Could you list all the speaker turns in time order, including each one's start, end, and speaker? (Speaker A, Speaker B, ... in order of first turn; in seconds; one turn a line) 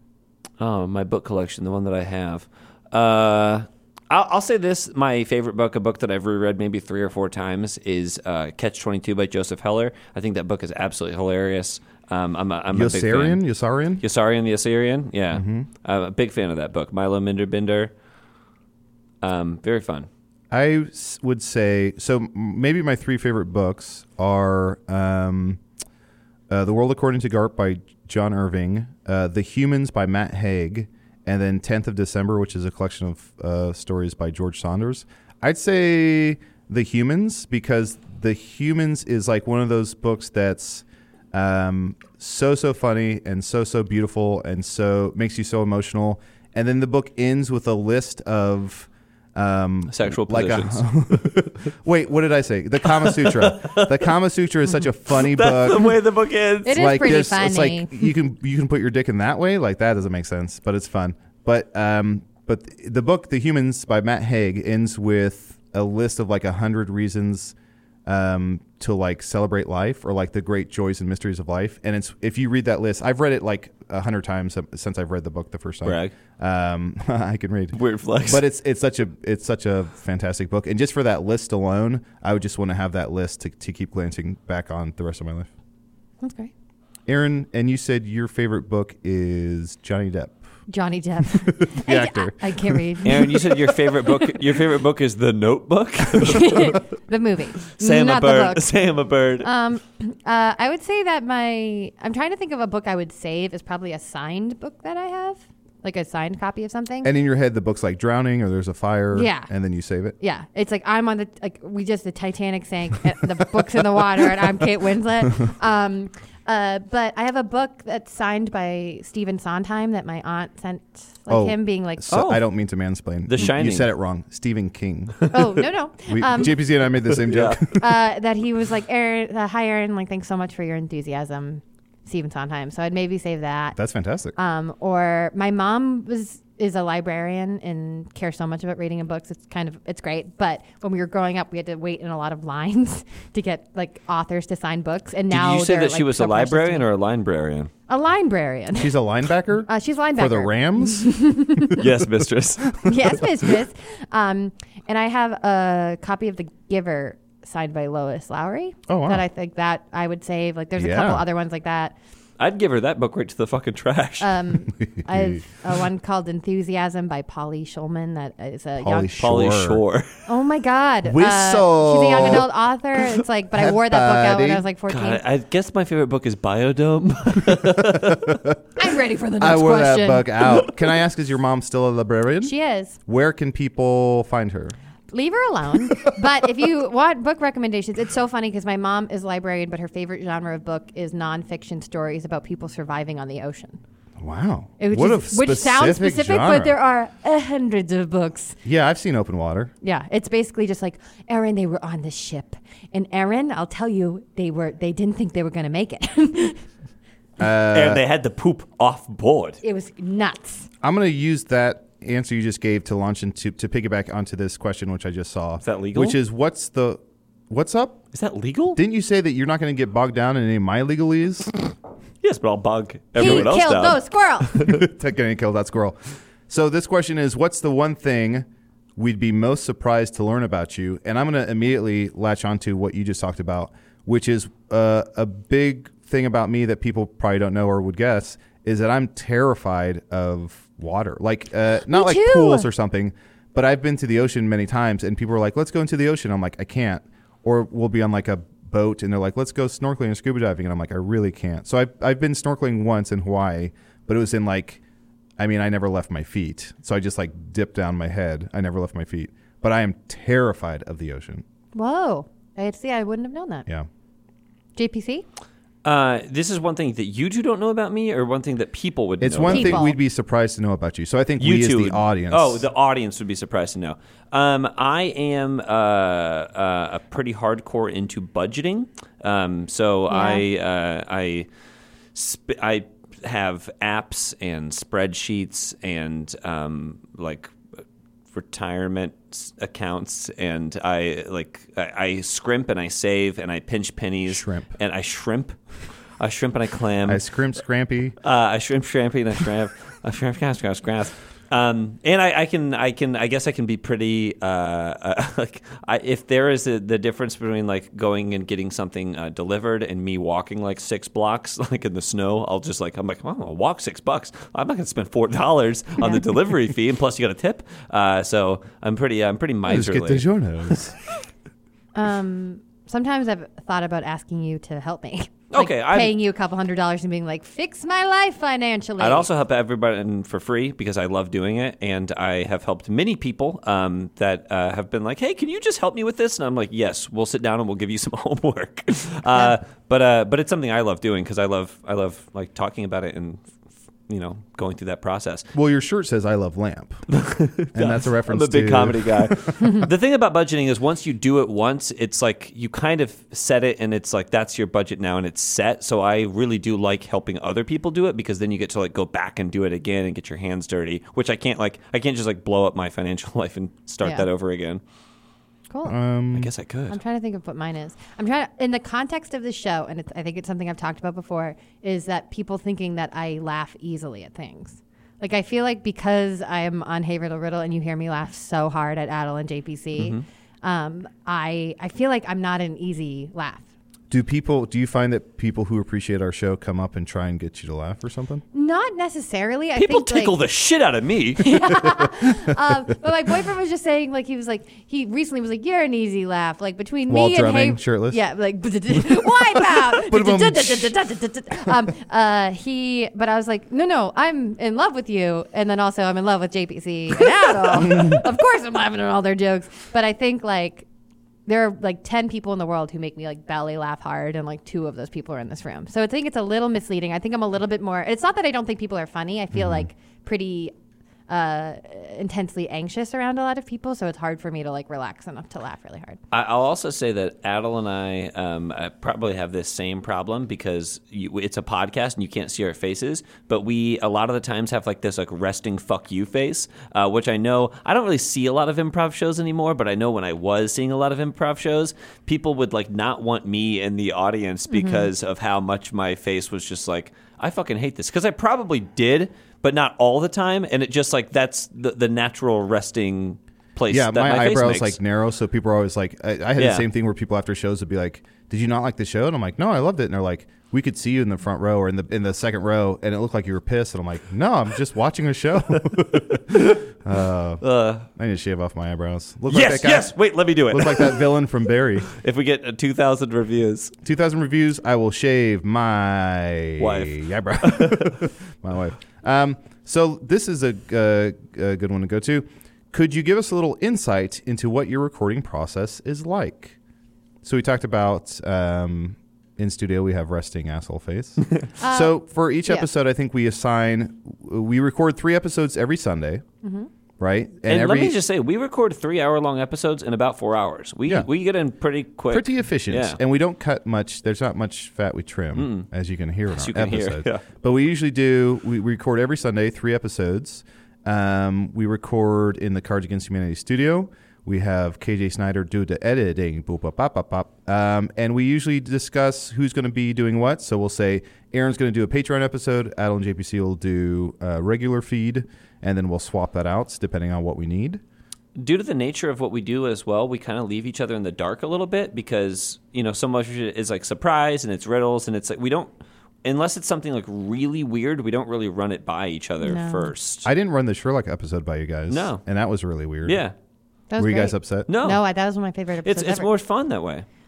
Speaker A: 0.6-13.4
Speaker B: 12.7-14.0
Speaker A: 14.0-17.9
Speaker B: 15.3-15.7
Speaker A: 19.2-20.1
Speaker B: 20.5-25.6
Speaker B: 26.5-56.0
Speaker A: 49.9-51.5
Speaker A: 52.9-54.0
Speaker A: 55.1-57.2
Speaker C: 56.6-57.9
Speaker B: 56.7-67.5
Speaker B: 68.0-85.5
Speaker A: 75.8-76.1
Speaker A: 77.7-78.4
Speaker C: 86.2-86.5
Speaker B: 87.1-90.4
Speaker C: 90.7-94.1
Speaker B: 91.5-92.8
Speaker A: 93.0-96.8
Speaker C: 96.2-98.7
Speaker A: 97.6-99.5
Speaker C: 99.4-107.1
Speaker B: 107.0-110.2
Speaker C: 109.1-109.5
Speaker C: 110.2-122.0
Speaker B: 121.3-125.3
Speaker A: 122.1-122.4
Speaker A: 123.3-123.9
Speaker C: 125.3-126.6
Speaker B: 126.1-127.8
Speaker A: 127.2-127.6
Speaker C: 127.7-133.8
Speaker B: 133.7-134.3
Speaker C: 134.3-146.9
Speaker A: 145.3-147.7
Speaker C: 147.9-149.0
Speaker B: 148.8-151.2
Speaker C: 149.7-151.8
Speaker A: 151.7-153.2
Speaker C: 152.8-161.9
Speaker B: 158.9-159.2
Speaker B: 160.8-161.2
Speaker A: 162.4-164.4
Speaker C: 164.2-169.2
Speaker B: 164.8-165.4
Speaker B: 168.8-169.8
Speaker A: 169.2-170.2
Speaker C: 170.3-175.2
Speaker B: 171.0-172.5
Speaker B: 173.5-174.6
Speaker A: 174.9-178.4
Speaker B: 178.1-178.5
Speaker C: 178.8-180.5
Speaker B: 179.4-182.5
Speaker C: 182.4-183.0
Speaker B: 183.1-184.8
Speaker C: 185.1-193.8
Speaker B: 194.2-196.7
Speaker C: 194.8-198.6
Speaker B: 198.6-199.7
Speaker C: 199.8-206.6
Speaker B: 207.4-208.0
Speaker A: 207.7-209.6
Speaker C: 209.6-210.7
Speaker B: 210.8-218.0
Speaker A: 215.6-216.2
Speaker A: 218.1-218.8
Speaker B: 218.7-221.5
Speaker A: 222.2-224.8
Speaker C: 223.2-224.5
Speaker B: 223.2-223.5
Speaker B: 224.6-226.0
Speaker B: 226.5-254.8
Speaker C: 241.9-242.7
Speaker B: 255.4-261.4
Speaker C: 261.7-263.6
Speaker C: 264.8-265.2
Speaker A: 265.8-269.9
Speaker B: 269.2-272.6
Speaker C: 269.5-270.0
Speaker A: 271.4-281.5
Speaker C: 280.1-280.4
Speaker A: 282.1-287.5
Speaker A: 288.3-295.6
Speaker B: 294.3-294.7
Speaker A: 296.2-297.2
Speaker B: 297.1-298.1
Speaker A: 298.2-320.8
Speaker C: 316.0-316.2
Speaker B: 319.7-320.9
Speaker C: 321.9-329.3
Speaker A: 325.5-326.1
Speaker A: 329.0-343.4
Speaker A: 344.1-345.4
Speaker B: 345.5-347.0
Speaker A: 347.1-364.8
Speaker B: 347.7-349.6
Speaker C: 365.7-365.9
Speaker B: 365.8-366.5
Speaker A: 366.3-367.0
Speaker C: 366.9-383.6
Speaker A: 380.0-380.2
Speaker B: 384.1-388.4
Speaker C: 388.5-390.4
Speaker A: 389.8-391.9
Speaker C: 391.4-410.9
Speaker B: 397.1-398.2
Speaker B: 399.6-400.9
Speaker C: 411.5-420.7
Speaker B: 419.5-419.9
Speaker C: 421.3-426.2
Speaker A: 426.3-455.0
Speaker C: 444.7-445.1
Speaker B: 453.9-467.6
Speaker A: 456.6-456.9
Speaker A: 465.8-466.8
Speaker A: 467.6-468.1
Speaker B: 468.1-470.1
Speaker A: 469.5-471.4
Speaker B: 470.7-472.1
Speaker A: 472.1-473.9
Speaker B: 474.0-486.8
Speaker A: 476.8-478.2
Speaker B: 487.4-496.4
Speaker C: 491.8-492.9
Speaker C: 496.6-496.9
Speaker B: 497.2-498.1
Speaker A: 497.7-503.2
Speaker B: 502.3-528.0
Speaker A: 505.5-505.9
Speaker A: 506.5-507.4
Speaker A: 528.5-535.9
Speaker A: 536.4-540.5
Speaker C: 539.6-540.1
Speaker B: 540.4-543.4
Speaker A: 542.1-542.4
Speaker A: 543.2-543.5
Speaker C: 544.1-546.5
Speaker B: 544.2-544.9
Speaker A: 544.9-545.2
Speaker A: 546.0-547.2